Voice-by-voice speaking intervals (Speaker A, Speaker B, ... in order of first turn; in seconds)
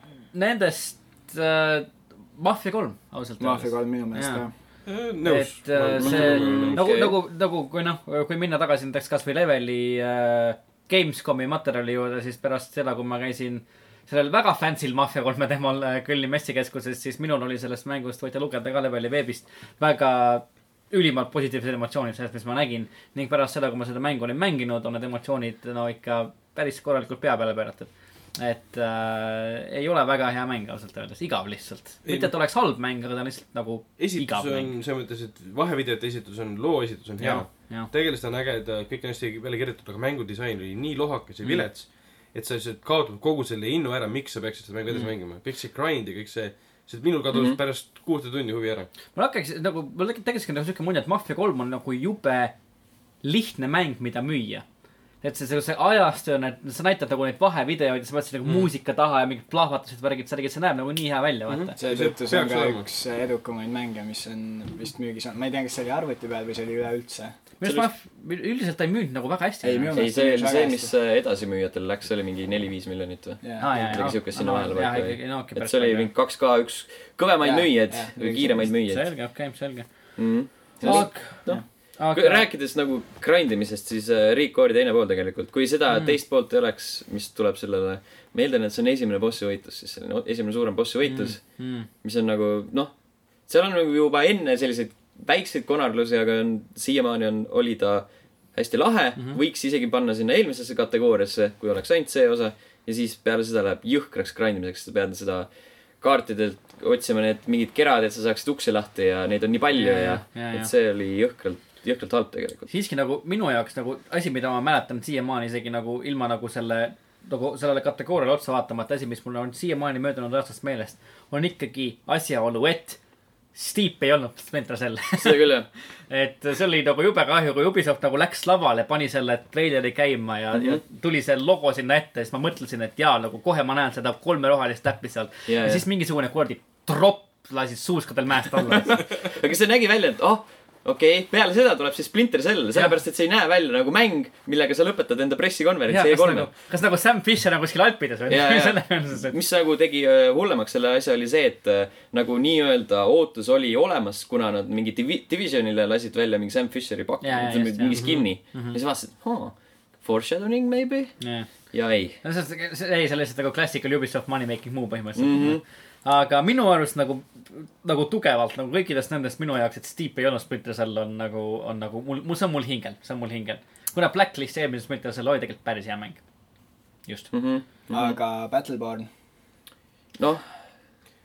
Speaker A: 0.3-4.4, 5.2-34.7, 37.2-37.9, 49.1-52.5, 53.2-54.6, 55.2-61.8, 67.6-70.0, 73.6-76.1, 78.8-79.9, 80.8-82.5, 85.9-86.2, 91.0-91.9, 109.7-110.7, 112.7-123.0, 123.5-125.5, 126.1-139.0, 145.9-149.4, 157.2-158.8, 161.2-161.5, 162.2-176.2, 177.1-177.3
Speaker B: 3.4-4.5, 61.8-67.3, 69.6-70.9, 73.4-73.8, 77.4-78.7, 80.9-81.6, 177.9-179.1
Speaker C: 4.9-6.8, 32.0-32.3, 34.0-48.9, 61.5-62.8, 157.9-158.2
Speaker D: 6.0-7.2, 47.3-47.6, 67.6-67.9, 69.9-79.1, 80.2-92.9, 93.5-105.5, 106.0-112.7, 125.2-125.7, 130.5-130.8, 135.5-135.8, 138.7-146.5, 148.3-161.2, 161.7-162.2, 165.2-165.6, 177.3-178.2, 180.2-180.4